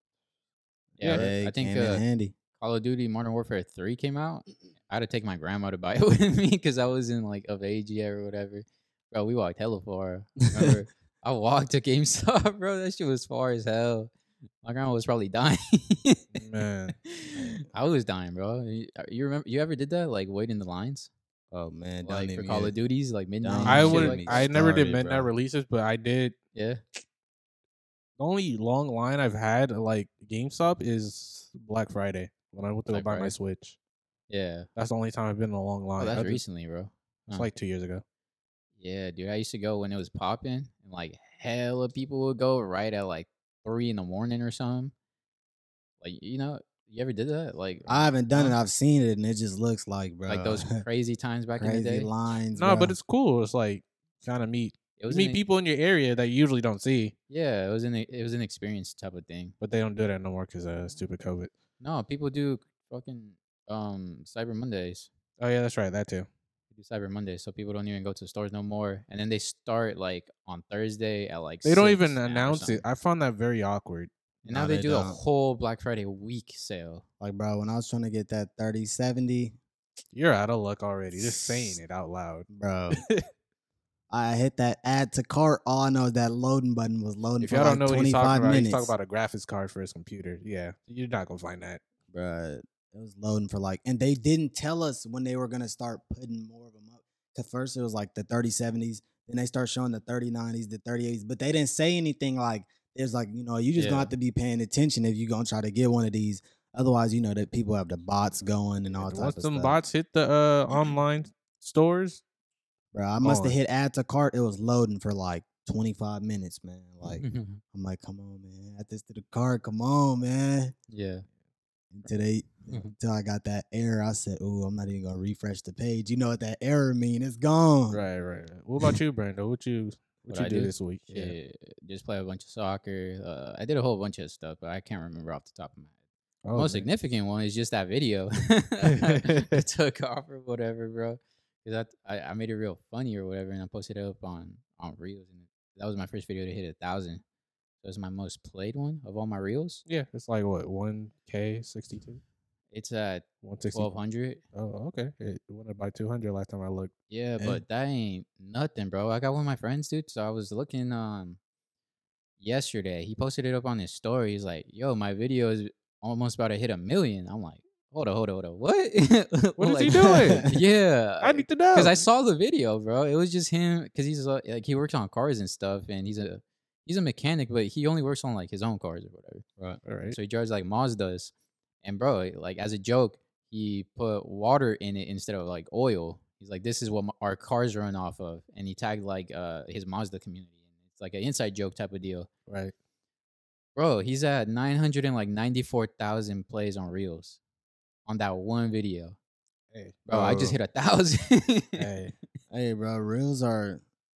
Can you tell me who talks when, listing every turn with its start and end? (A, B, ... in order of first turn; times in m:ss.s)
0:01.0-0:02.0 A
0:01.0-0:01.3 B
0:01.0-0:02.3 C
0:02.6-0:14.1 A
0:14.6-0:16.4 A
0:16.3-0:17.0 B
0:17.0-0:21.1 A
0:17.3-0:17.7 C
0:21.5-0:22.7 C
0:22.0-0:24.5 A
0:23.4-0:25.3 C
0:23.6-0:26.4 B
0:26.5-0:26.8 A
0:28.2-0:33.8 B
0:32.9-0:33.3 A
0:34.3-0:34.7 A
0:34.8-0:36.4 B
0:36.0-0:37.5 A
0:37.3-0:38.0 B
0:38.8-0:44.9 A
0:46.0-0:48.5 A
0:47.9-0:50.8 C
0:50.3-0:52.1 A
0:51.6-0:53.0 C
0:52.6-0:57.1 B
0:55.0-0:55.4 A
0:57.3-0:59.5 A
0:59.6-1:01.5 B
1:01.8-1:05.1 A
1:05.4-1:06.3 B
1:06.7-1:12.8 A
1:11.6-1:14.1 B
1:14.4-1:15.2 C
1:14.4-1:17.0 A
1:17.2-1:19.6 C
1:20.1-1:23.2 B
1:21.1-1:21.8 C
1:22.5-1:23.0 C
1:24.1-1:28.9 C
1:27.4-1:31.8 B
1:32.1-1:49.8 C
1:43.8-1:44.1 A
1:49.0-1:52.2 B
1:52.9-2:00.7 C
1:53.2-1:53.6 B
1:57.0-1:57.6 A
2:00.9-2:01.2 A
2:01.9-2:08.0 C
2:02.7-2:02.9 A
2:07.9-2:11.4 B
2:10.3-2:15.9 A
2:16.4-2:16.9 B
2:16.5-2:27.2 A
2:27.8-2:29.8 A
2:29.8-2:32.2 B
2:32.7-2:34.4 A
2:33.4-2:33.9 B
2:34.5-2:36.9 B
2:37.1-2:41.4 A
2:42.4-2:59.4 A
2:49.6-2:50.6 B
2:50.0-2:50.5 C
2:51.2-2:52.0 B
2:59.8-3:00.2 B
3:00.1-3:01.3 A
3:01.8-3:12.3 A
3:12.5-3:12.7 B
3:13.8-3:17.4 A
3:18.0-3:19.2 A
3:19.7-3:20.0 B
3:20.1-3:21.9 A
3:20.1-3:20.6 C
3:21.8-3:22.1 B
3:22.5-3:23.8 C